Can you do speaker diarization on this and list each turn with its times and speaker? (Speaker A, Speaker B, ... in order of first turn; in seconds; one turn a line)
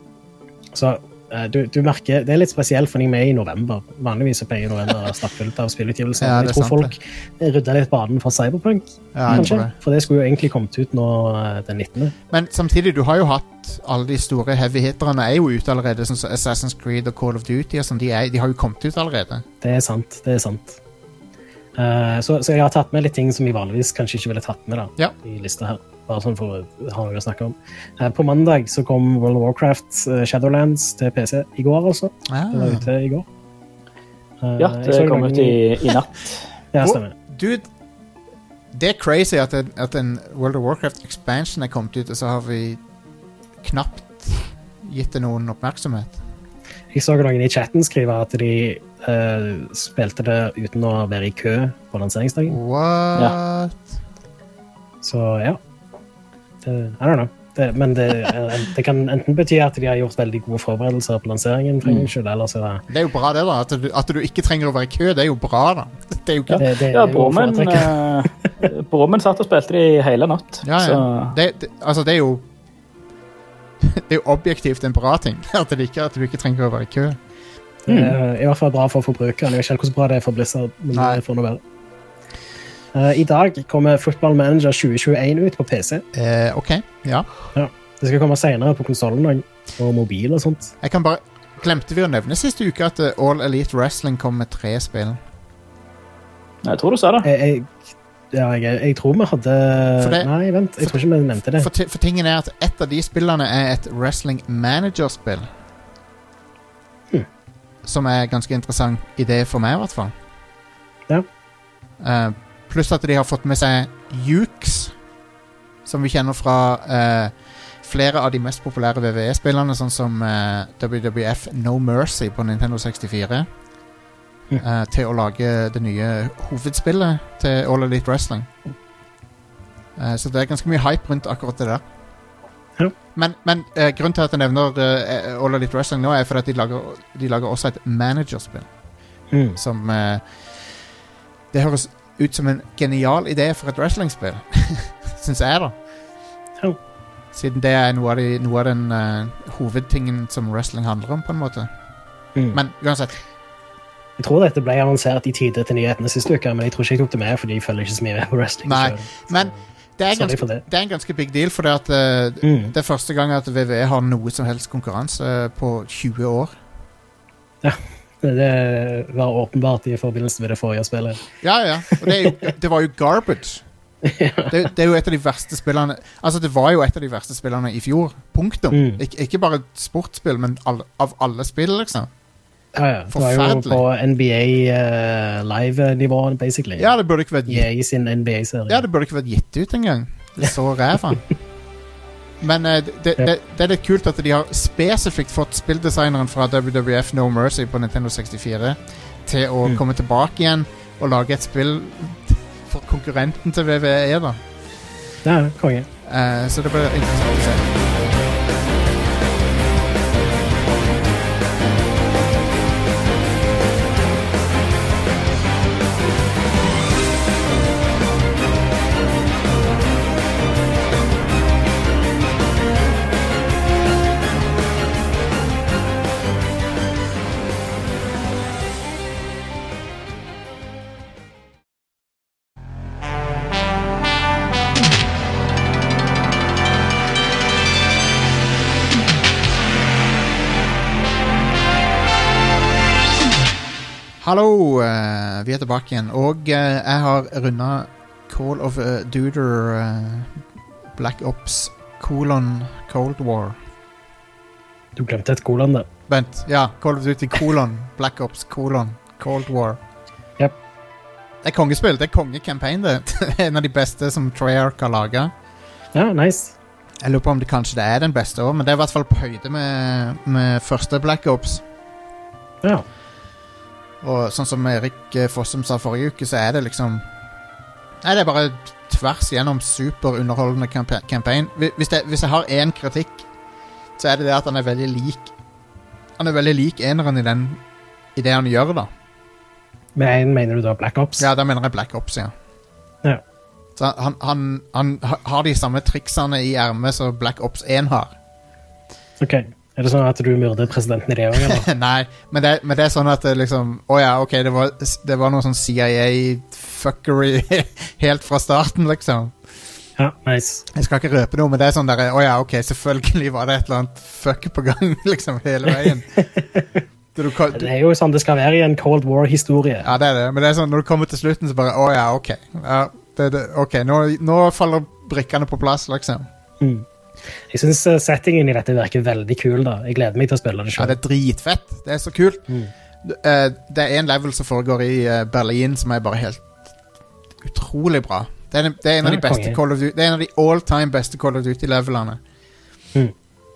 Speaker A: 0.7-12.1
Speaker B: 6.2-6.9
Speaker B: 9.1-9.7
Speaker C: 9.3-9.6
Speaker B: 12.3-19.4
Speaker A: 19.6-20.8
Speaker A: 21.7-33.2
Speaker B: 32.3-32.9
Speaker A: 34.4-35.6
Speaker C: 34.6-36.4
Speaker A: 36.7-37.1
Speaker B: 36.8-37.6
Speaker B: 38.7-42.8
Speaker B: 43.6-46.2
Speaker A: 46.9-52.6
Speaker B: 52.5-53.9
Speaker A: 55.0-55.6
Speaker A: 56.6-62.8
Speaker B: 62.9-66.6
Speaker C: 66.5-71.3
Speaker A: 66.6-68.2
Speaker B: 70.6-72.5
Speaker B: 73.8-77.2
Speaker A: 77.9-81.6
Speaker C: 77.9-78.2
Speaker B: 80.9-81.2
Speaker A: 82.9-86.0
Speaker B: 86.1-87.3
Speaker A: 87.5-90.7
Speaker B: 90.8-95.2
Speaker C: 96.6-97.3
Speaker A: 97.2-97.8
Speaker A: 98.3-101.7
Speaker B: 100.0-100.3
Speaker B: 101.6-105.5
Speaker B: 107.8-110.1
Speaker B: 112.0-114.9
Speaker B: 115.8-123.5
Speaker B: 124.6-128.5
Speaker B: 130.0-131.8
Speaker B: 133.1-138.7
Speaker A: 139.3-139.6
Speaker B: 139.6-140.2
Speaker B: 141.5-145.8
Speaker B: 147.3-151.7
Speaker B: 152.5-153.2
Speaker A: 154.2-159.5
Speaker B: 158.6-166.5
Speaker A: 160.1-160.6
Speaker A: 162.4-162.7
Speaker A: 167.6-171.2
Speaker B: 171.4-173.6
Speaker A: 171.9-172.3
Speaker A: 174.0-174.6
Speaker B: 174.5-182.1
Speaker A: 178.7-179.0
Speaker A: 182.7-186.9
Speaker B: 183.1-183.8
Speaker B: 186.8-187.7
Speaker A: 187.5-188.8
Speaker B: 188.7-191.2
Speaker B: 192.4-204.4
Speaker A: 205.2-205.9
Speaker B: 206.0-207.8
Speaker B: 244.2-250.4
Speaker B: 250.9-253.6
Speaker A: 254.9-255.9
Speaker B: 256.1-259.8
Speaker B: 261.4-265.3
Speaker A: 265.9-266.5
Speaker B: 267.0-271.6
Speaker B: 274.0-277.0
Speaker B: 278.0-283.2
Speaker B: 284.0-285.3
Speaker B: 286.2-287.6
Speaker B: 288.1-288.9
Speaker A: 289.9-291.3
Speaker B: 291.2-292.3
Speaker B: 293.8-298.1
Speaker A: 299.2-301.6
Speaker B: 301.4-309.3
Speaker A: 310.0-310.7
Speaker B: 310.7-316.3
Speaker A: 316.2-316.8
Speaker B: 317.1-317.7
Speaker A: 317.5-319.9
Speaker B: 319.8-326.3
Speaker A: 326.6-326.9
Speaker A: 327.5-331.0
Speaker B: 330.7-332.4
Speaker B: 333.0-336.5
Speaker B: 337.4-342.2
Speaker A: 339.0-339.6